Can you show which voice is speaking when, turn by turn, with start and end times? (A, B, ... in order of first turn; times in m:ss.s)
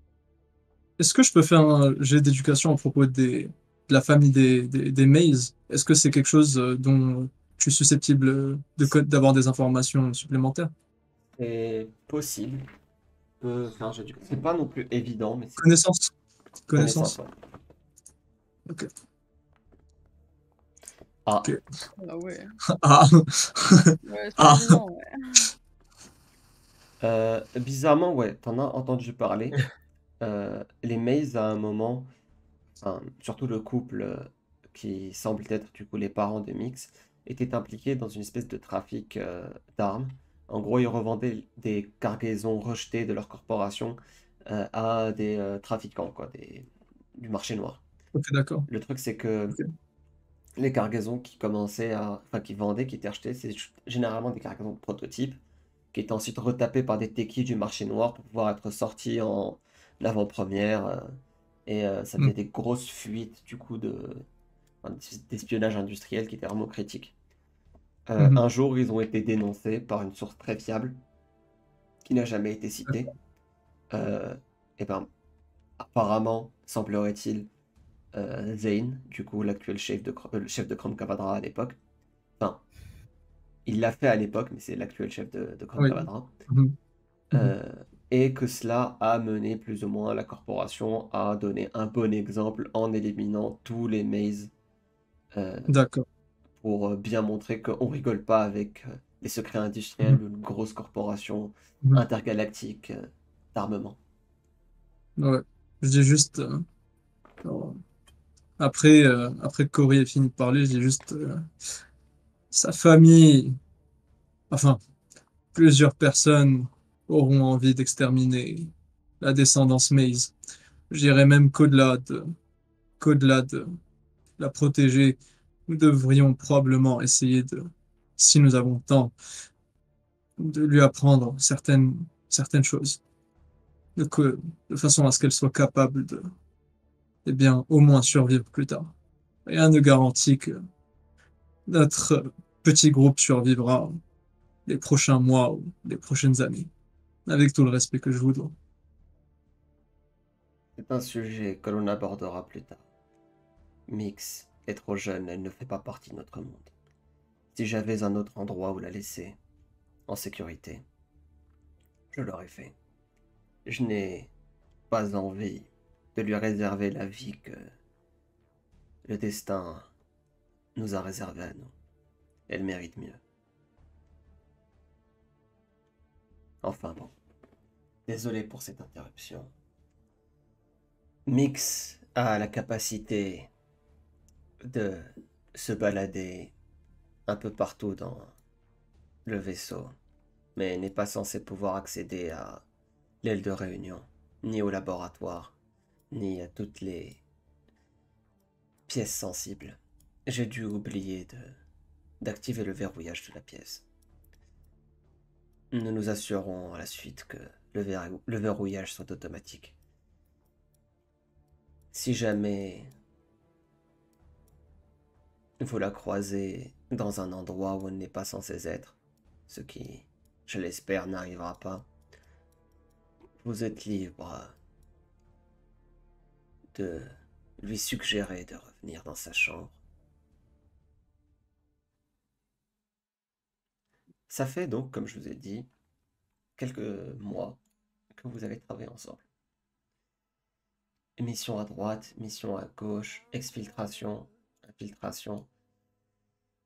0:01.0-0:10.7 A
0:11.4-0:12.7 B
0:13.4-0:15.6 B
0:15.6-0:16.1 A
0:16.7-0:17.2 A
0:16.7-0:17.3 B
0:21.2-0:21.5 B
0:22.0-0:22.5 C
0:22.8-0:24.8 A
0:24.0-0:25.4 C
0:27.0-0:29.6 B
0:30.2-0:32.1 B
0:32.8-0:47.8 B
0:48.2-0:48.7 A
0:48.7-0:49.6 B
0:50.6-0:55.4 B
0:55.9-1:04.2 B
1:04.8-1:07.1 B
1:08.1-1:11.0 B
1:12.0-1:13.1 B
1:13.9-1:15.1 B
1:15.8-1:17.5 B
1:18.1-1:21.8 B
1:23.6-1:26.4 B
1:25.8-1:26.7 A
1:27.3-1:34.5 B
1:35.3-1:35.8 B
1:35.7-1:36.0 A
1:36.6-1:44.0 B
1:45.2-1:46.6 A
1:47.4-1:47.8 A
1:48.6-1:51.5 A
1:52.5-1:53.6 A
1:54.5-1:54.8 A
1:55.5-2:00.3 A
2:00.9-2:02.3 A
2:03.0-2:03.7 A
2:04.4-2:09.1 A
2:10.4-2:13.0 A
2:14.0-2:16.3 A
2:17.2-2:18.9 A
2:19.4-2:20.6 A
2:21.7-2:24.0 A
2:24.7-2:26.7 A
2:27.3-2:28.5 A
2:30.8-2:32.8 B
2:33.9-2:36.7 B
2:37.5-2:39.4 B
2:40.1-2:40.8 B
2:42.1-2:42.7 B
2:43.6-2:44.3 B
2:44.9-2:47.7 B
2:49.0-2:49.9 B
2:50.8-2:51.7 B
2:52.5-2:53.2 B
2:56.6-2:57.1 B
2:58.1-2:59.5 B
3:01.3-3:03.5 B
3:04.6-3:06.5 B
3:07.3-3:08.3 B
3:09.2-3:09.9 B
3:10.5-3:12.6 B
3:13.2-3:15.6 B
3:16.1-3:17.2 B
3:18.9-3:21.6 B
3:22.2-3:23.8 B
3:25.7-3:29.8 B
3:31.9-3:32.9 B
3:35.6-3:39.0 B
3:39.5-3:41.9 B
3:43.4-3:44.5 B
3:46.7-3:49.8 B
3:54.3-3:55.7 B
3:56.6-3:57.6 B
3:58.1-3:59.2 B
4:01.2-4:05.5 B